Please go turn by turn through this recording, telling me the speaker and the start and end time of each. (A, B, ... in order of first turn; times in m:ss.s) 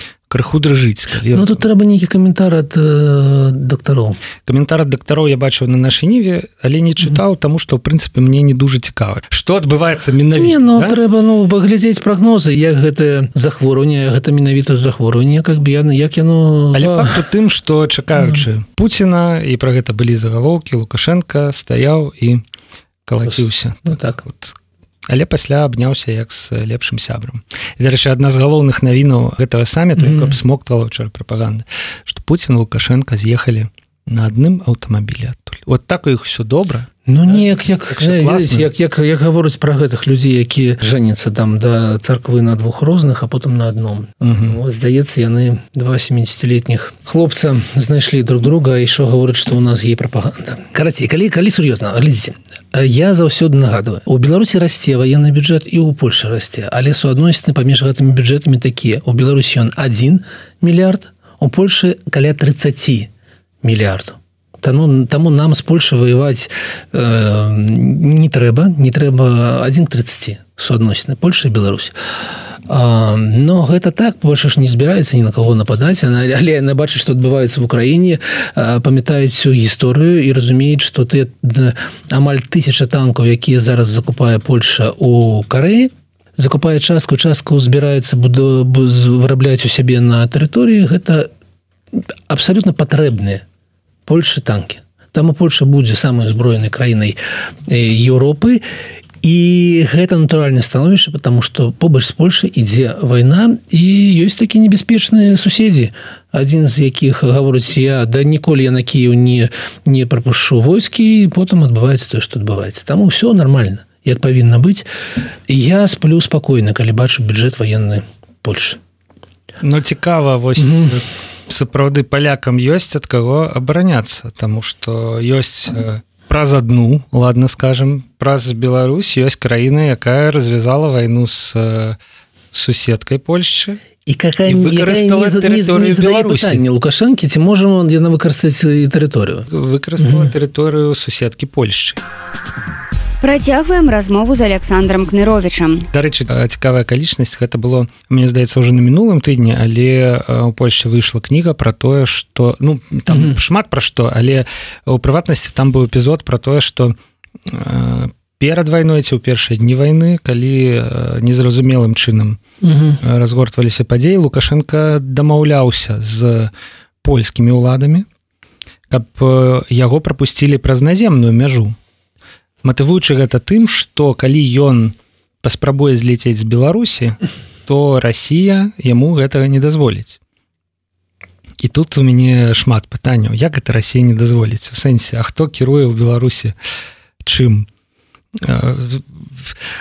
0:00.3-0:01.6 A
0:01.3-0:04.2 B
0:04.4-0:11.0 A
0:10.4-0:17.2 B
0:16.7-0:22.4 A
0:18.2-0:18.4 B
0:23.1-0:24.5 A
0:23.2-0:24.2 B
0:25.1-0:38.7 A
0:30.0-0:30.4 B
0:37.1-1:03.1 B
0:44.2-0:44.6 A
1:03.6-1:11.9 B
1:12.7-1:31.3 B
1:31.9-1:33.4 B
1:34.1-1:37.2 B
1:37.7-1:38.6 B
1:39.2-1:54.8 B
1:55.5-1:58.8 B
1:59.6-2:12.0 A
2:00.6-2:01.0 B
2:12.5-2:13.8 A
2:14.1-2:20.3 B
2:14.5-2:16.6 A
2:19.5-2:22.0 A
2:23.2-2:25.9 C
2:25.9-2:36.9 A
2:33.1-2:33.4 B
2:37.5-2:42.4 A
2:42.6-2:43.0 B
2:43.0-2:46.5 A
2:47.0-2:48.1 A
2:48.9-2:51.8 A
2:52.6-3:00.2 A
3:01.6-3:06.6 A
3:07.2-3:07.7 A
3:08.4-3:09.5 A